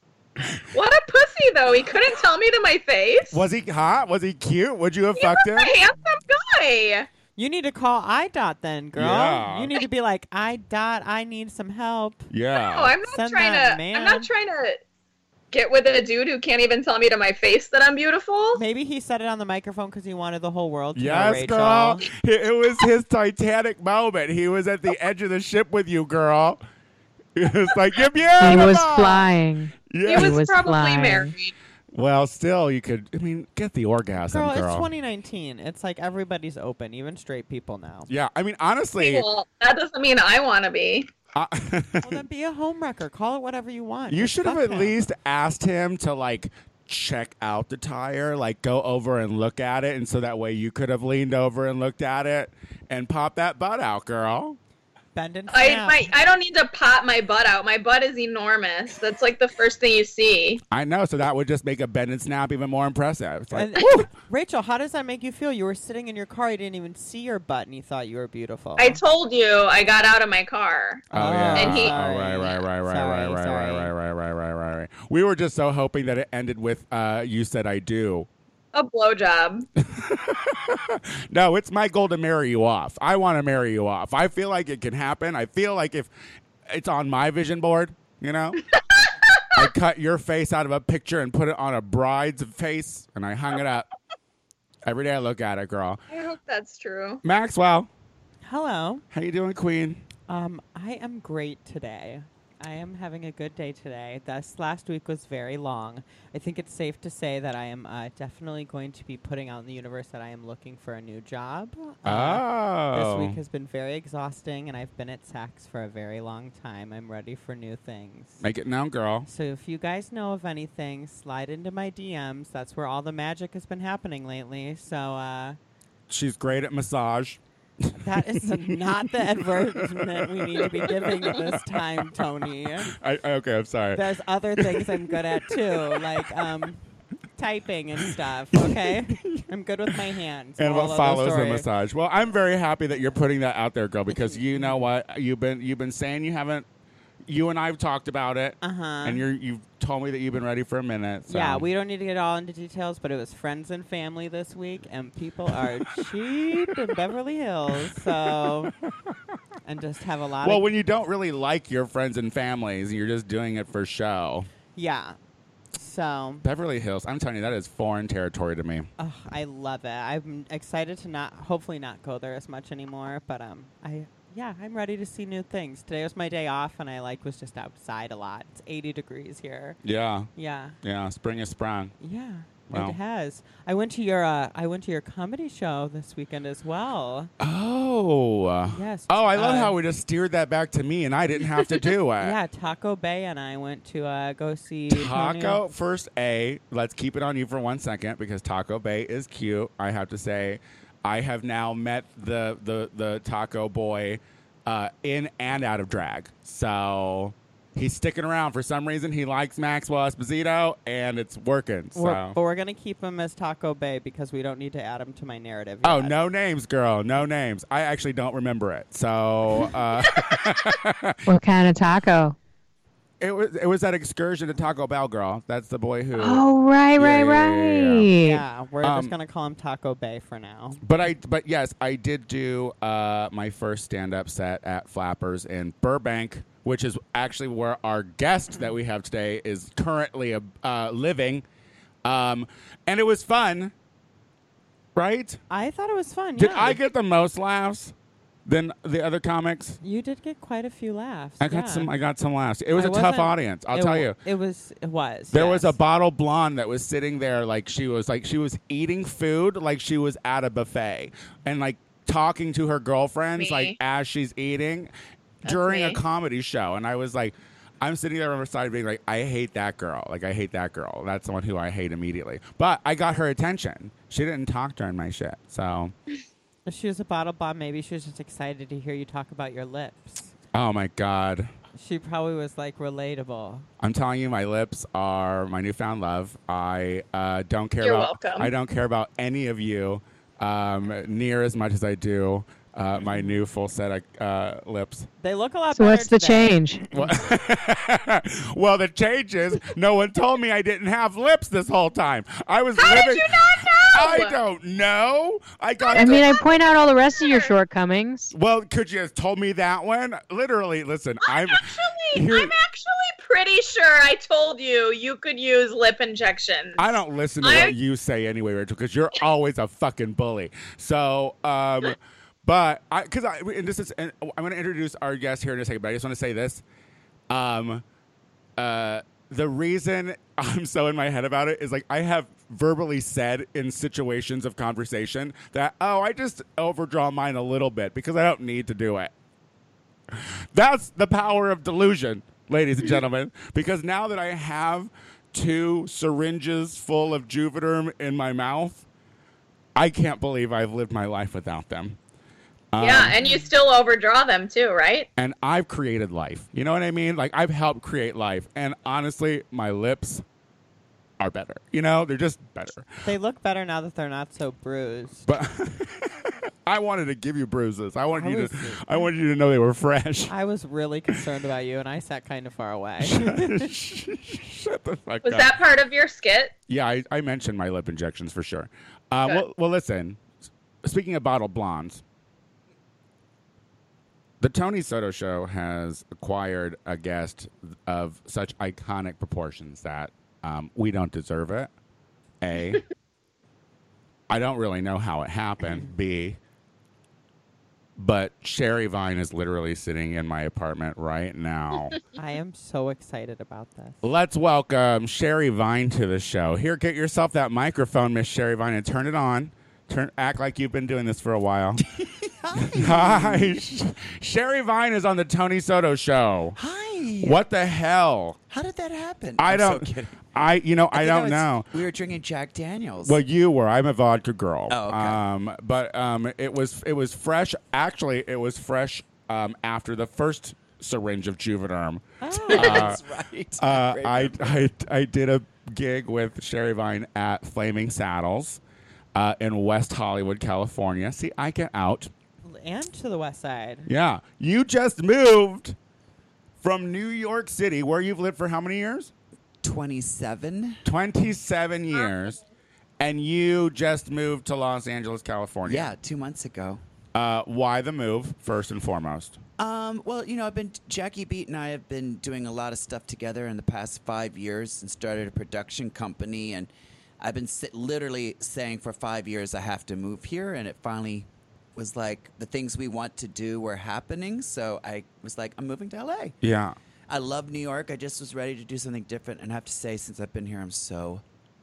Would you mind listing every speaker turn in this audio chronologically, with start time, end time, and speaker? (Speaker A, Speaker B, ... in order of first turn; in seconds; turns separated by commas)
Speaker A: 0.7-3.4, Speaker B: 3.3-5.7, Speaker A: 5.2-7.1, Speaker C: 7.3-12.3, Speaker B: 8.9-9.7, Speaker B: 12.3-12.9, Speaker A: 12.6-14.8, Speaker C: 13.1-14.3, Speaker A: 15.5-18.6, Speaker C: 18.5-22.1, Speaker B: 20.9-26.6, Speaker B: 27.3-29.3, Speaker D: 28.4-31.3, Speaker B: 29.9-30.4, Speaker A: 30.1-31.5, Speaker B: 31.9-34.9, Speaker C: 34.2-38.1, Speaker B: 38.1-39.2, Speaker A: 39.0-41.1, Speaker B: 41.3-42.2, Speaker C: 42.0-45.0, Speaker B: 44.1-54.6, Speaker C: 55.1-56.1, Speaker A: 55.5-60.6, Speaker B: 60.7-64.1, Speaker C: 63.5-69.0, Speaker A: 68.8-71.0, Speaker C: 71.1-73.9, Speaker B: 71.1-78.3, Speaker A: 71.5-72.0, Speaker A: 78.7-79.7, Speaker B: 79.8-86.1, Speaker B: 86.7-88.6, Speaker A: 89.0-89.4, Speaker B: 89.5-93.9, Speaker B: 94.8-96.0, Speaker A: 96.1-97.2, Speaker B: 97.2-97.9, Speaker C: 98.4-99.0, Speaker B: 99.1-100.0, Speaker C: 100.3-118.4, Speaker B: 112.0-113.4, Speaker B: 118.4-119.3, Speaker C: 119.2-125.6, Speaker B: 126.1-128.8, Speaker C: 127.9-133.0, Speaker B: 129.3-134.0, Speaker C: 133.9-136.8, Speaker B: 134.6-136.2, Speaker C: 137.3-141.7, Speaker B: 138.5-139.9, Speaker B: 140.6-146.7, Speaker C: 144.2-144.9, Speaker B: 147.3-151.7, Speaker C: 148.6-149.2, Speaker C: 151.3-158.7, Speaker C: 159.6-160.7, Speaker B: 160.4-164.5, Speaker C: 164.7-165.2, Speaker C: 165.7-166.4, Speaker B: 166.4-168.9, Speaker C: 169.0-179.8, Speaker B: 179.8-180.3, Speaker C: 180.3-180.8, Speaker B: 180.8-181.9, Speaker C: 182.0-187.3, Speaker B: 182.7-183.0, Speaker B: 187.4-192.3, Speaker C: 188.7-189.8, Speaker C: 191.5-195.6, Speaker B: 194.9-212.4, Speaker C: 211.9-216.2, Speaker B: 215.8-221.2, Speaker D: 221.3-222.3, Speaker B: 223.2-226.4, Speaker D: 226.2-228.4, Speaker B: 226.9-228.1, Speaker C: 228.2-230.8, Speaker B: 228.8-229.1, Speaker B: 230.8-241.4, Speaker B: 242.0-243.7, Speaker B: 244.9-245.4, Speaker C: 245.5-246.8, Speaker B: 246.4-247.9, Speaker B: 248.4-249.8, Speaker C: 249.8-251.9, Speaker B: 251.4-254.2, Speaker C: 252.7-255.8, Speaker B: 255.3-264.9, Speaker A: 263.4-263.8, Speaker B: 265.4-275.9, Speaker A: 265.4-266.0, Speaker C: 276.6-280.3, Speaker B: 280.5-281.5, Speaker C: 281.8-283.7, Speaker B: 283.8-295.1, Speaker A: 287.8-288.5, Speaker C: 295.2-297.1, Speaker D: 295.7-296.9, Speaker B: 296.9-306.4, Speaker A: 302.8-304.4, Speaker A: 305.8-306.6, Speaker D: 305.9-308.3, Speaker A: 307.1-307.5, Speaker B: 308.3-312.5, Speaker A: 311.2-316.9, Speaker B: 316.8-326.6, Speaker A: 317.4-317.7, Speaker B: 327.3-327.8, Speaker B: 328.6-339.1, Speaker B: 340.1-348.8, Speaker B: 349.7-352.0, Speaker B: 352.7-353.2, Speaker A: 352.8-355.1, Speaker B: 355.1-360.2, Speaker B: 361.2-362.9, Speaker C: 363.0-365.3, Speaker B: 365.3-370.3, Speaker C: 368.1-369.1, Speaker C: 370.3-373.7, Speaker B: 373.0-375.5, Speaker A: 375.2-376.5, Speaker B: 376.7-380.2, Speaker B: 380.8-382.0, Speaker B: 384.4-391.7, Speaker B: 392.4-392.8, Speaker B: 394.3-396.4, Speaker B: 398.0-402.0, Speaker C: 402.1-404.0, Speaker B: 404.0-411.8, Speaker E: 411.9-413.6, Speaker B: 412.6-416.6, Speaker E: 416.6-417.4, Speaker B: 417.2-418.4, Speaker E: 418.5-420.3, Speaker B: 419.4-421.7, Speaker E: 420.9-423.2, Speaker B: 423.0-433.0, Speaker E: 424.7-425.2, Speaker C: 432.2-433.0, Speaker E: 432.3-434.6, Speaker B: 433.6-438.6, Speaker B: 439.1-442.1, Speaker C: 442.4-443.9, Speaker B: 443.9-445.8, Speaker B: 446.6-449.1, Speaker E: 449.6-450.8, Speaker B: 450.8-452.4, Speaker B: 453.0-455.9, Speaker E: 455.6-456.8, Speaker B: 457.1-459.4, Speaker E: 459.6-466.7, Speaker E: 467.2-476.4, Speaker B: 476.4-476.8, Speaker E: 477.1-481.2